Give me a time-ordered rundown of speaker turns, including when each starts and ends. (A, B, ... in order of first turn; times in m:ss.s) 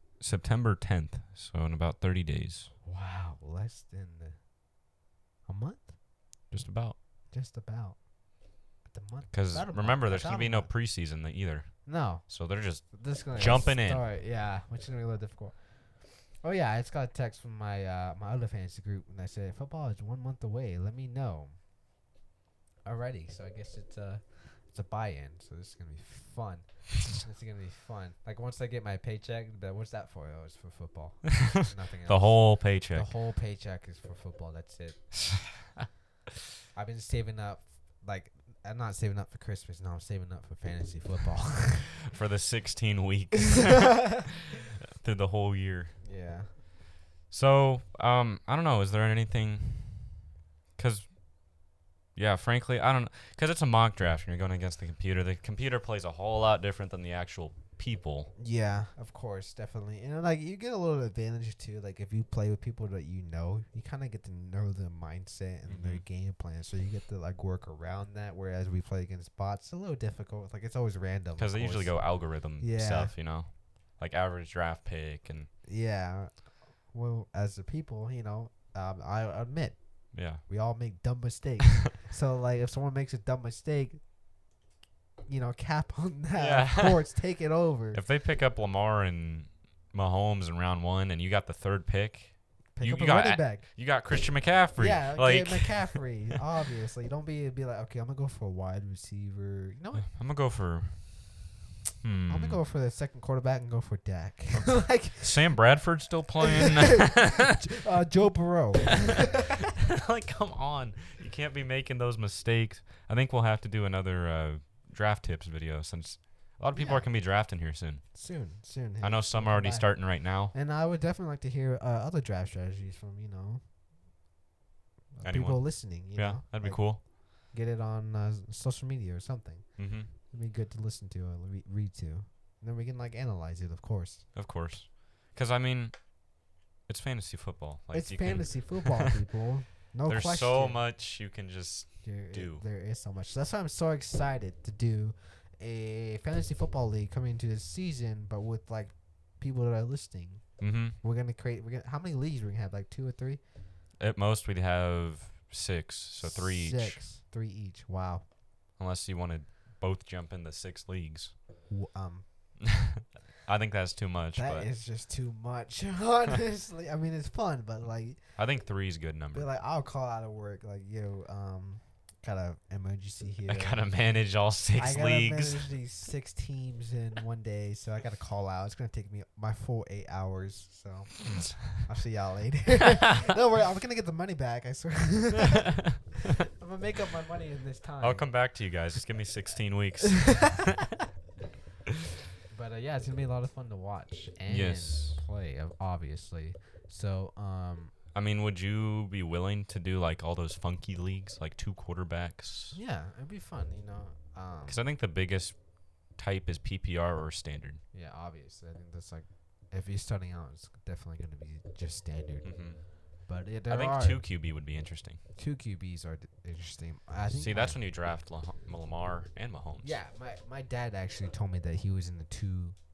0:00.2-0:02.7 A
0:02.8-0:04.4 B
0:05.5-0:05.9 B
0:06.5-0:07.0 A
0:07.3-0:08.0 B
0:08.8-0:10.7 B
0:09.3-0:14.0 A
0:11.8-0:21.5 B
0:22.8-0:35.0 B
0:31.5-0:33.1 A
0:36.7-0:42.0 B
0:42.1-0:46.0 A
0:46.0-0:46.5 B
0:47.3-0:50.2 A
0:50.8-0:51.1 A
0:52.2-0:58.3 A
0:58.4-1:13.2 B
1:05.6-1:06.0 A
1:11.4-1:15.5 A
1:15.6-1:24.0 B
1:20.1-1:20.4 A
1:25.3-1:28.0 B
1:26.4-1:27.0 A
1:27.9-1:36.4 A
1:32.8-1:33.7 B
1:34.8-1:40.2 B
1:40.0-1:41.1 A
1:42.0-1:42.6 A
1:42.3-1:45.6 B
1:44.5-1:47.7 A
1:46.4-1:49.5 B
1:49.2-1:58.0 A
1:56.7-1:57.2 B
1:58.1-2:03.6 B
1:59.0-2:00.5 A
2:05.2-2:14.3 B
2:05.2-2:07.0 A
2:09.8-2:10.1 A
2:14.4-2:16.1 A
2:16.9-2:19.2 A
2:17.9-2:20.8 B
2:20.1-2:22.6 A
2:22.0-2:33.4 B
2:30.6-2:31.0 A
2:34.0-2:37.0 A
2:36.2-2:38.3 B
2:38.8-2:41.3 A
2:41.7-2:42.7 B
2:42.8-2:44.7 A
2:44.4-2:48.4 B
2:48.4-2:49.5 A
2:49.3-2:54.2 B
2:53.5-2:55.7 A
2:54.7-3:08.3 B
3:01.2-3:01.8 A
3:08.0-3:10.7 A
3:12.5-3:17.9 B
3:14.5-3:15.2 A
3:18.1-3:22.8 A
3:22.7-3:24.8 B
3:24.7-3:25.6 A
3:26.1-3:27.8 A
3:27.9-3:34.2 B
3:32.4-3:32.8 A
3:33.7-3:35.2 A
3:35.4-3:37.8 B
3:37.3-3:40.0 A
3:39.8-3:42.8 B